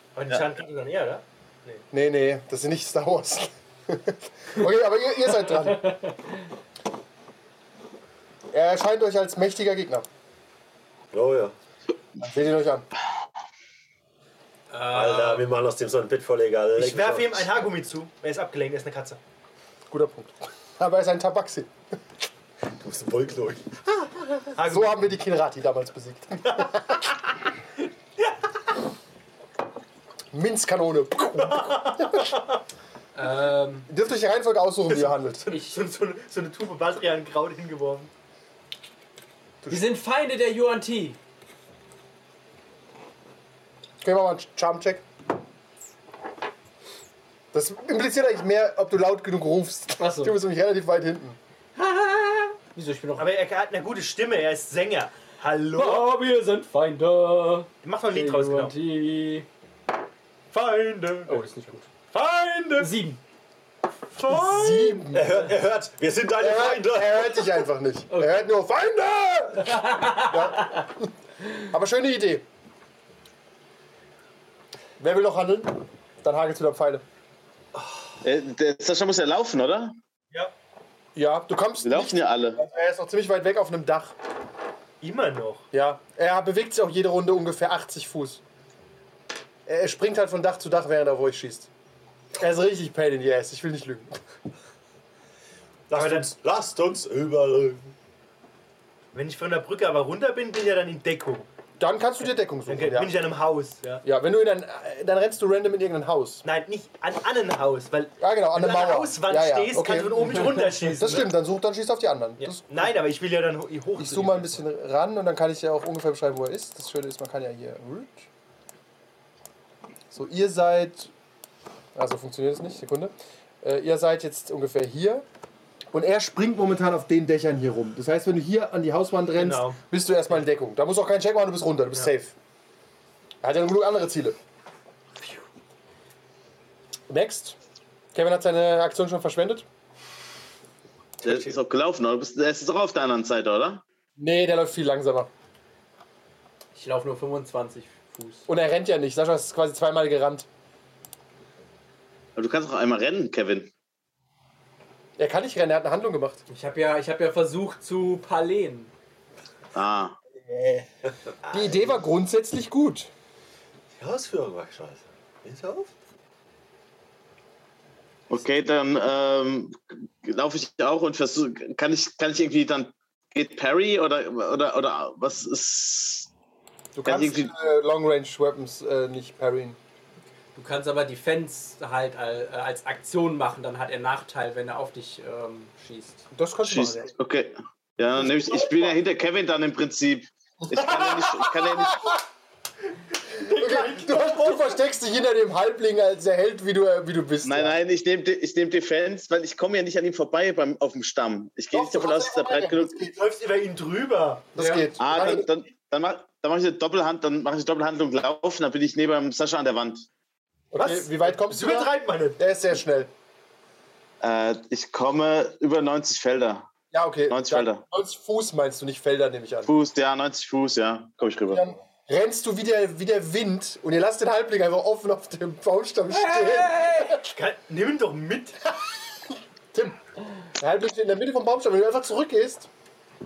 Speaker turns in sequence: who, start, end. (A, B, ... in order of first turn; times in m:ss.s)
0:00.2-0:01.8 A
0:01.9-0:05.9 B
0:05.5-0:06.5 C
0:08.5-0:10.1 B
0:11.1-0:11.5 D
0:12.2-0:12.9 B
0:14.7-0:15.5 C
0:14.9-0:17.5 D
0:16.8-0:19.2 A
0:19.9-0:21.7 B
0:22.8-0:24.4 D
0:24.6-0:25.1 A
0:24.7-0:27.1 B
0:30.3-0:32.4 B
0:31.3-0:32.4 A
0:33.2-0:33.9 C
0:33.9-0:35.5 B
0:34.9-0:38.1 A
0:35.5-0:35.9 C
0:39.7-0:41.2 C
0:44.0-0:45.0 B
0:47.5-0:51.4 B
0:50.0-0:50.4 C
0:51.8-0:53.3 C
0:53.2-0:56.1 A
0:55.8-0:59.5 C
0:57.8-0:58.8 A
1:00.5-1:01.5 A
1:01.3-1:01.9 C
1:02.1-1:03.0 A
1:02.8-1:03.2 C
1:04.1-1:05.1 A
1:04.3-1:05.4 B
1:05.1-1:07.6 D
1:06.4-1:11.1 B
1:08.1-1:08.4 C
1:09.6-1:10.9 C
1:11.7-1:12.4 B
1:15.0-1:17.0 B
1:18.2-1:19.9 E
1:21.2-1:24.2 B
1:21.8-1:22.6 E
1:25.0-1:25.7 A
1:25.7-1:28.4 B
1:29.7-1:31.7 B
1:32.4-1:34.2 B
1:35.9-1:37.9 D
1:35.9-1:36.3 A
1:39.1-1:41.5 A
1:41.8-1:43.2 B
1:42.7-1:44.0 A
1:44.0-1:46.4 B
1:46.4-1:51.3 A
1:48.2-1:52.6 B
1:52.4-1:54.6 A
1:54.0-1:58.3 B
2:00.1-2:01.1 B
2:02.0-2:05.3 B
2:05.9-2:12.4 B
2:09.4-2:09.8 A
2:13.4-2:14.4 B
2:17.1-2:17.6 B
2:18.1-2:19.7 B
2:21.2-2:23.8 E
2:24.2-2:25.3 B
2:26.8-2:28.5 C
2:28.5-2:30.5 B
2:32.4-2:33.7 E
2:35.2-2:36.4 B
2:36.5-2:38.9 C
2:39.8-2:40.2 E
2:40.4-2:41.9 D
2:41.5-2:43.1 B
2:44.0-2:45.9 D
2:48.3-2:56.3 E
2:56.9-2:59.8 B
2:57.1-2:57.5 E
3:00.6-3:06.3 C
3:06.3-3:07.1 B
3:06.7-3:12.2 E
3:10.7-3:12.2 B
3:13.3-3:14.8 A
3:13.5-3:17.8 B
3:17.4-3:23.0 E
3:21.7-3:23.2 B
3:23.1-3:24.6 A
3:24.6-3:25.5 B
3:24.6-3:24.9 C
3:25.0-3:30.1 E
3:30.7-3:33.1 B
3:30.8-3:32.4 A
3:34.2-3:36.7 E
3:36.9-3:39.7 B
3:37.3-3:37.8 E
3:39.6-3:41.7 E
3:41.5-3:47.2 B
3:46.1-3:47.2 C
3:47.2-3:48.6 A
3:49.7-3:50.0 B
3:50.6-3:52.7 B